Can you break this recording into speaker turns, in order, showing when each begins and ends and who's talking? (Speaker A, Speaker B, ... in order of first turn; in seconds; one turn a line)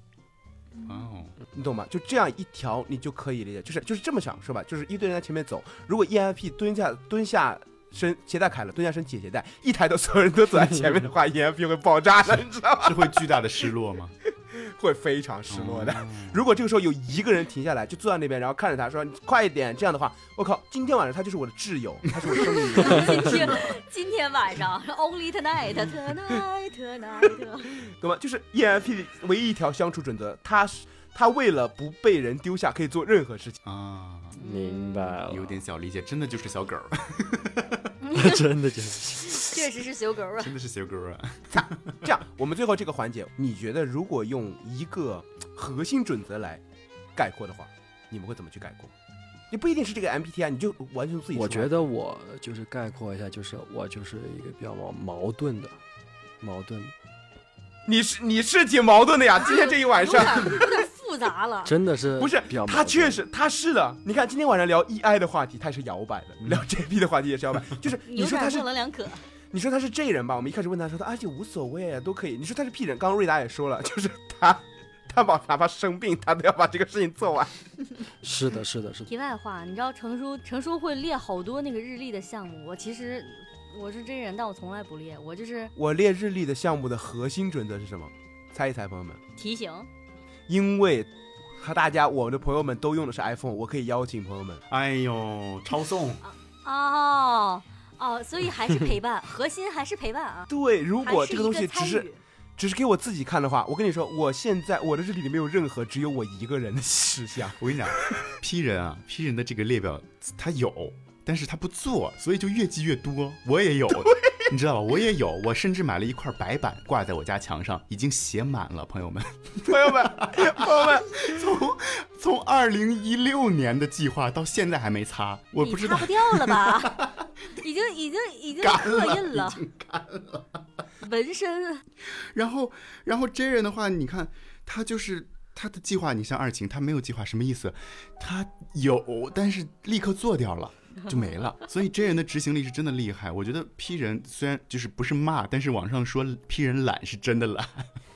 Speaker A: 0.8-1.4
Speaker B: 1.5-13.4
Speaker A: 12.8-14.2
Speaker B: 14.5-23.8
Speaker A: 15.5-16.4
Speaker C: 22.6-27.7
Speaker B: 27.9-33.6
Speaker A: 33.6-34.4
Speaker D: 34.4-35.6
Speaker C: 34.4-35.1
Speaker A: 35.3-37.9
Speaker C: 38.0-38.5
Speaker D: 38.1-39.5
Speaker C: 39.2-40.5
Speaker A: 40.4-42.0
Speaker B: 41.5-46.6
Speaker B: 47.2-48.9
Speaker B: 49.5-51.8
Speaker D: 51.3-55.8
Speaker D: 56.4-56.9
Speaker B: 57.9-60.7
Speaker C: 59.4-61.7
Speaker D: 61.6-63.2
Speaker B: 62.2-68.7
Speaker C: 68.1-69.2
Speaker B: 69.5-77.6
Speaker D: 78.2-79.1
Speaker C: 79.1-85.7
Speaker B: 85.8-89.2
Speaker C: 89.4-89.9
Speaker B: 90.5-94.6
Speaker A: 94.7-96.2
Speaker C: 96.2-100.5
Speaker B: 100.5-107.7
Speaker C: 101.0-102.2
Speaker A: 107.6-127.3
Speaker B: 119.7-121.3
Speaker C: 125.6-127.0
Speaker C: 127.6-129.6
Speaker A: 128.6-130.6
Speaker C: 131.0-131.8
Speaker A: 132.1-147.9